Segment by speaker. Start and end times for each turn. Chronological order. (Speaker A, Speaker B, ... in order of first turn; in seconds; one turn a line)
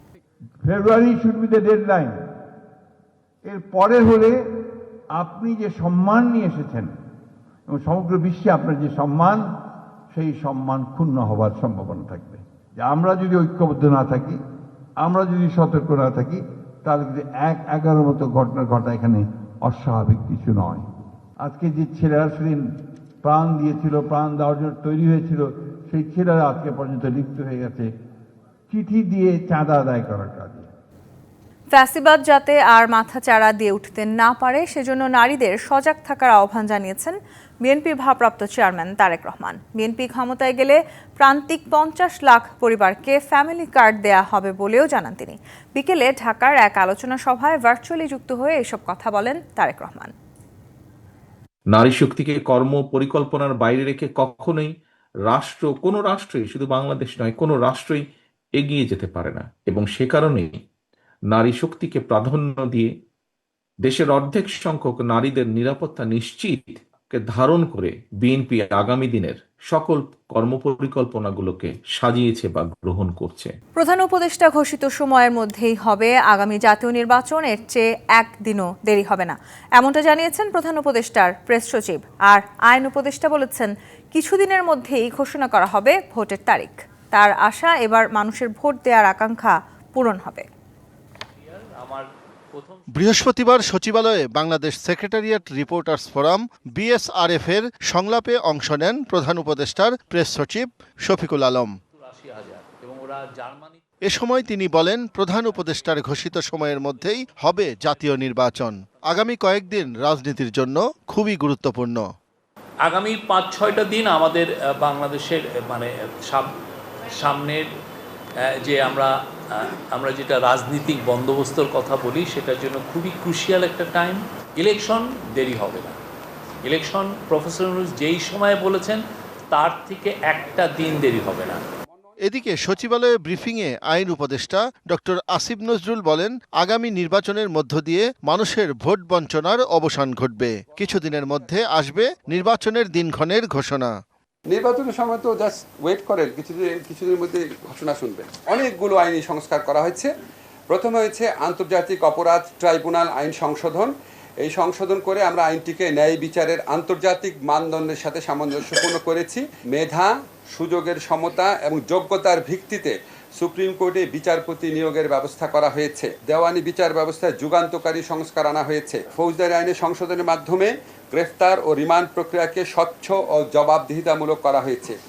Speaker A: 0.6-2.2
Speaker A: 3.4-6.9
Speaker A: 7.7-9.5
Speaker A: 10.1-14.4
Speaker A: 15.0-20.9
Speaker A: 21.4-27.9
Speaker A: 28.7-30.7
Speaker B: 31.7-50.1
Speaker C: 51.7-54.7
Speaker C: 55.3-58.0
Speaker C: 58.6-60.6
Speaker C: 61.3-62.9
Speaker C: 63.9-73.5
Speaker B: 73.8-90.5
Speaker D: 91.5-92.8
Speaker E: 92.9-101.7
Speaker D: 102.0-103.8
Speaker E: 104.1-112.1
Speaker D: 112.8-116.5
Speaker D: 117.1-117.7
Speaker D: 118.4-126.0
Speaker D: 126.6-131.6
Speaker E: 132.3-143.9
Speaker F: 144.5-150.1
Speaker F: 150.7-153.9
Speaker F: 154.4-174.9